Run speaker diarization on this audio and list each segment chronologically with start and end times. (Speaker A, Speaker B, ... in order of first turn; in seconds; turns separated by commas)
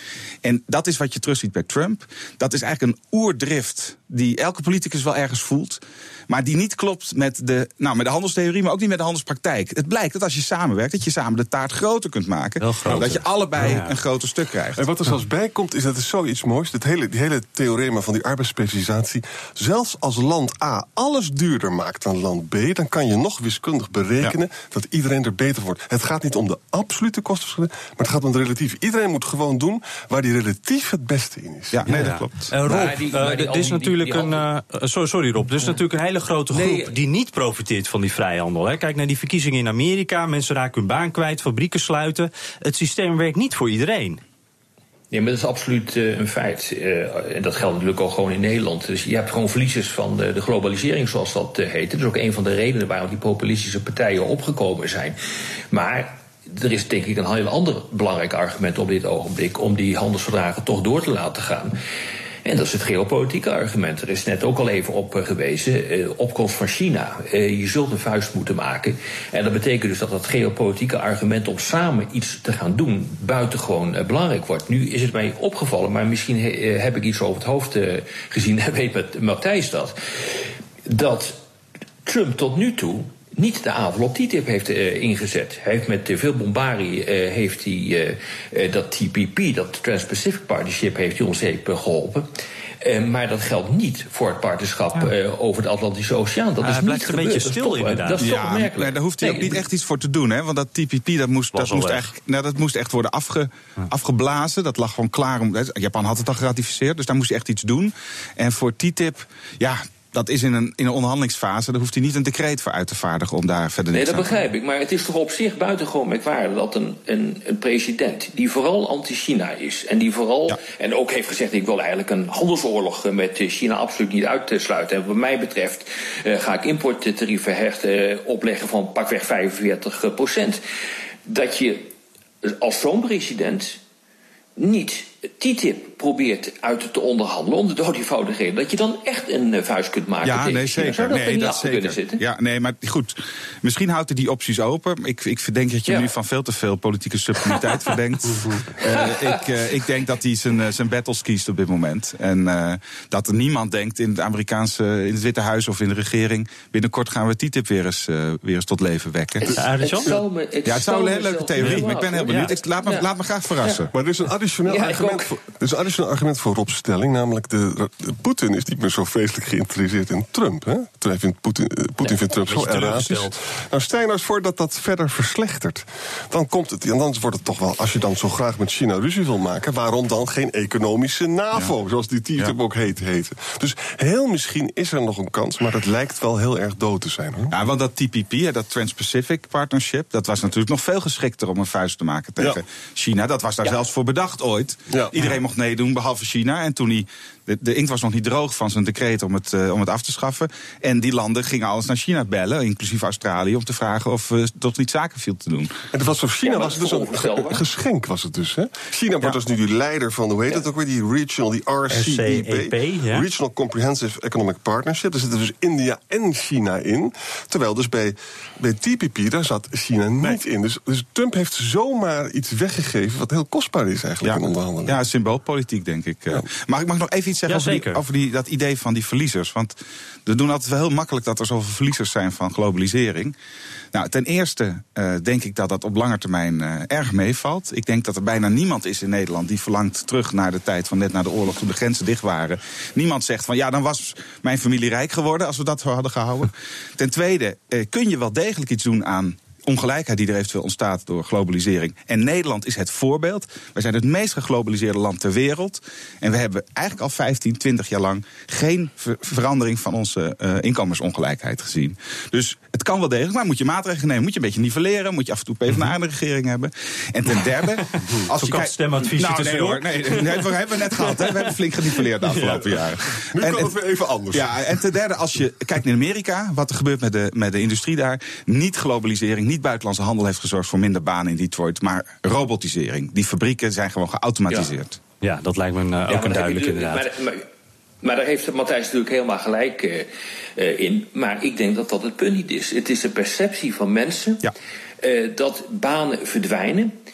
Speaker A: 0.4-14.8, Speaker B: 12.6-14.0, Speaker C: 14.8-31.9, Speaker A: 31.7-32.6, Speaker B: 31.9-44.2, Speaker D: 32.6-34.5, Speaker D: 36.5-37.0, Speaker D: 45.1-55.2, Speaker D: 55.7-61.8, Speaker D: 62.5-81.4, Speaker D: 82.1-92.3, Speaker D: 92.8-99.6, Speaker B: 96.6-98.3, Speaker A: 98.2-114.4, Speaker B: 101.5-102.1, Speaker D: 113.9-130.6, Speaker D: 131.3-131.9, Speaker D: 132.4-133.8, Speaker D: 134.6-142.2, Speaker A: 140.2-159.6, Speaker D: 145.9-146.1, Speaker D: 148.8-149.4, Speaker D: 159.4-163.8, Speaker B: 159.6-160.2, Speaker A: 160.7-163.9, Speaker B: 161.6-162.5, Speaker C: 163.9-187.5, Speaker D: 164.7-165.3, Speaker B: 172.1-173.4, Speaker A: 187.5-205.7, Speaker C: 205.9-225.0, Speaker D: 206.4-207.7, Speaker B: 211.9-213.3, Speaker A: 224.2-233.4, Speaker B: 227.5-228.0, Speaker A: 233.9-273.7, Speaker B: 265.7-265.9, Speaker B: 267.4-272.8, Speaker C: 273.3-274.5, Speaker A: 274.3-285.0, Speaker B: 285.2-287.1, Speaker D: 286.1-287.5, Speaker D: 288.0-294.5, Speaker D: 295.0-296.9